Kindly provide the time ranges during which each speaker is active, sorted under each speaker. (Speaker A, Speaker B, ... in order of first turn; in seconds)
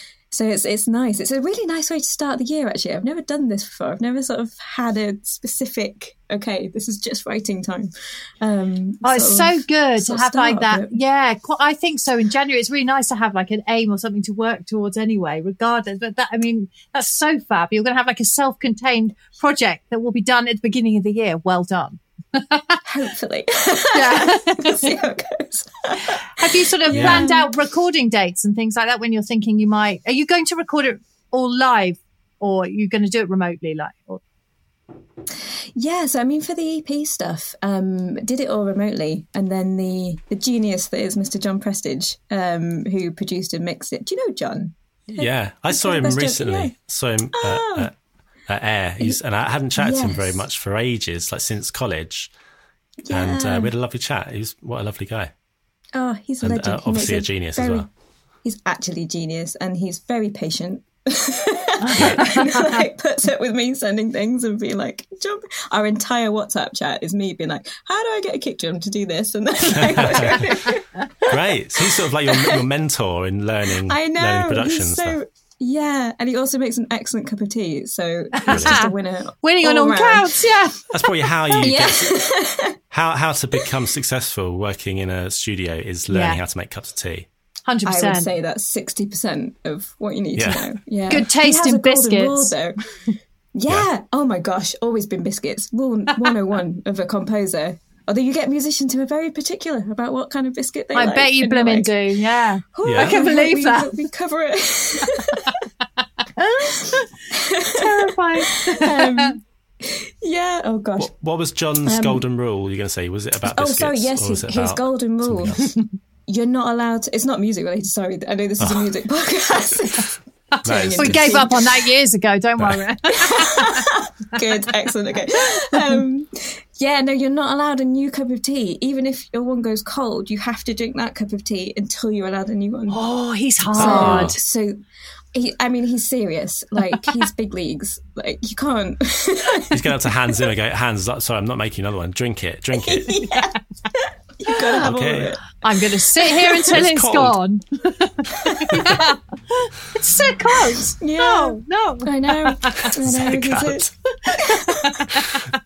Speaker A: 0.3-11.0, 22.8-26.2, 26.8-27.5, 35.7-46.7, 47.3-47.9, 49.8-50.4, 53.0-53.7, 55.9-57.9, 58.4-72.6, 73.8-80.5, 81.5-82.8, 87.8-92.8, 93.5-102.0, 102.7-105.5, 106.8-111.1, 111.8-112.2, 113.4-115.6, 116.3-120.1, 120.6-121.7, 123.1-133.0, 133.7-134.8, 135.3-140.1, 142.7-145.4, 146.2-146.7, 148.5-148.8, 151.0-154.9
Speaker B: 9.0-22.8, 23.9-25.0, 26.4-34.2, 61.8-62.8, 78.4-78.9, 79.4-80.8, 86.1-86.4, 87.7-88.3, 91.1-92.5, 100.9-104.0, 106.3-107.1, 107.7-109.4, 120.9-123.9, 125.7-126.0, 132.9-134.4, 145.6-152.9, 154.4-155.4
Speaker C: 26.9-27.3, 45.1-47.9, 48.5-52.3, 53.1-55.3, 56.4-57.9, 69.8-70.5, 71.3-75.2, 78.5-78.8, 80.9-82.2, 82.9-87.3, 90.3-90.7, 102.8-103.2, 111.0-115.7, 118.6-118.9, 120.6-121.4, 133.7-134.3, 139.7-143.2, 144.8-145.3, 146.7-147.4, 152.8-153.9